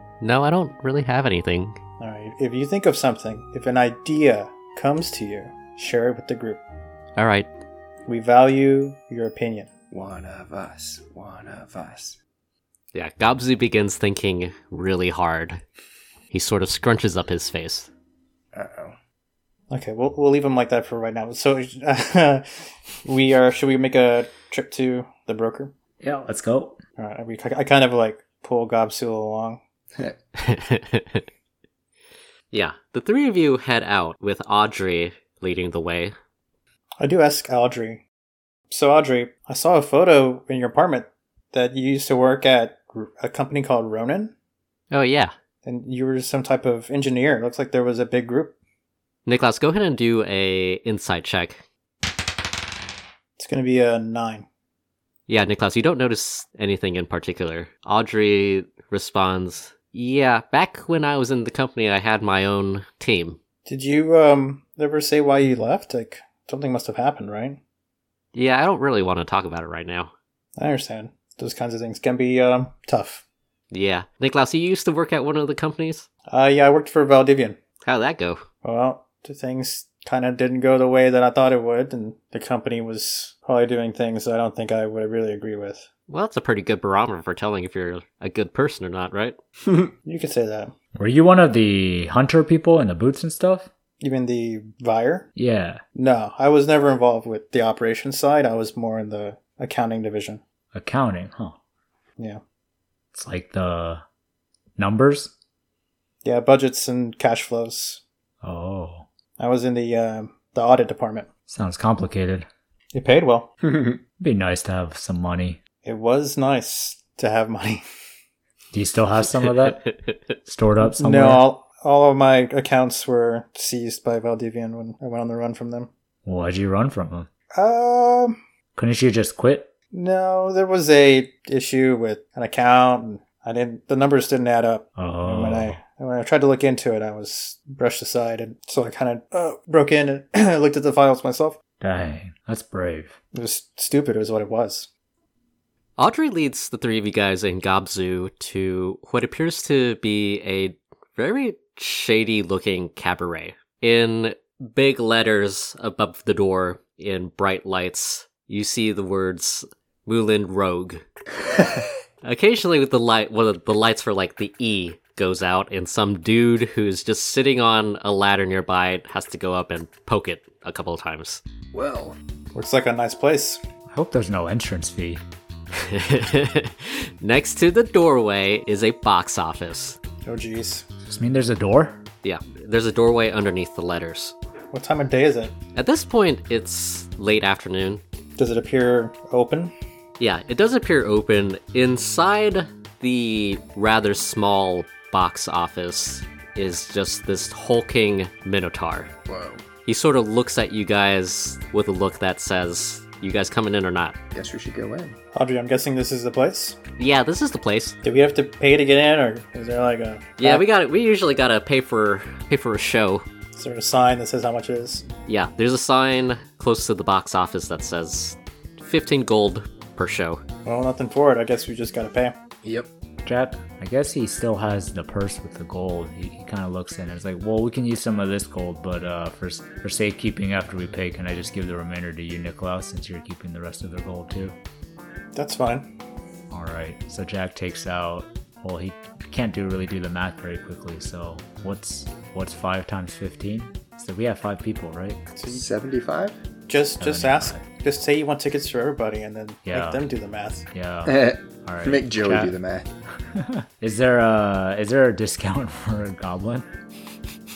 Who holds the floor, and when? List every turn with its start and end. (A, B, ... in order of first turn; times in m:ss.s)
0:00.2-0:01.8 A
0:02.0-0:06.6 B
0:07.2-0:07.5 A
0:08.1-0:09.7 B
0:09.9-0:12.2 C
0:12.9-0:15.6 A
0:16.3-0:17.9 A
0:18.5-0:19.0 C
0:19.7-0:25.7 B
0:26.0-0:26.8 D
0:27.0-0:29.6 B
0:30.4-0:31.2 A
0:32.5-0:36.1 A
0:37.0-0:38.0 B
0:38.7-0:44.3 B
0:44.9-0:45.3 A
0:45.6-0:48.6 B
0:49.2-0:51.6 A
0:53.4-0:54.4 B
0:55.3-1:03.4 A
1:03.6-1:07.6 B
1:08.3-1:10.1 A
1:10.6-1:13.2 B
1:13.7-1:16.1 A
1:16.3-1:17.6 B
1:17.8-1:18.4 A
1:18.6-1:25.9 B
1:26.1-1:29.4 A
1:30.0-1:30.7 B
1:31.0-1:33.7 D
1:34.0-1:35.3 B
1:35.4-1:35.8 D
1:35.9-1:40.4 B
1:40.7-1:41.6 D
1:43.1-1:44.0 D
1:44.8-1:45.3 D
1:46.2-1:48.0 B
1:48.4-1:49.1 D
1:49.4-1:51.3 B
1:51.5-1:52.5 D
1:52.9-1:53.5 B
1:53.7-1:54.0 C
1:54.2-1:55.6 D
1:55.8-1:57.8 B
1:58.7-1:59.8 D
2:00.4-2:01.4 D
2:00.8-2:05.9 B
2:06.2-2:07.3 D
2:07.5-2:08.4 B
2:08.8-2:09.7 D
2:09.9-2:21.6 B
2:15.0-2:15.8 D
2:21.8-2:23.2 D
2:23.3-2:24.9 B
2:26.0-2:41.0 A
2:42.2-2:51.4 A
2:51.7-2:52.2 C
2:52.5-2:53.6 B
2:53.9-2:55.2 D
2:55.7-3:00.0 A
3:00.2-3:00.8 B
3:01.1-3:02.0 D
3:02.2-3:04.3 A
3:04.7-3:05.5 B
3:05.7-3:08.0 A
3:08.4-3:09.7 B
3:10.2-3:19.1 A
3:19.3-3:19.6 C
3:19.8-3:24.1 A
3:24.3-3:25.2 C
3:25.3-3:26.8 B
3:27.0-3:28.0 A
3:28.0-3:30.6 B
3:30.4-3:33.2 A
3:33.6-3:35.0 B
3:35.3-3:40.4 A
3:40.6-3:42.4 B
3:42.6-3:42.9 C
3:43.2-3:54.6 D
3:55.3-3:55.9 B
3:56.5-4:05.2 D
4:05.4-4:05.6 B
4:05.5-4:06.4 C
4:06.7-4:10.6 B
4:07.0-4:07.6 D
4:09.6-4:10.0 D
4:10.7-4:12.6 D
4:11.0-4:12.9 C
4:13.3-4:16.7 D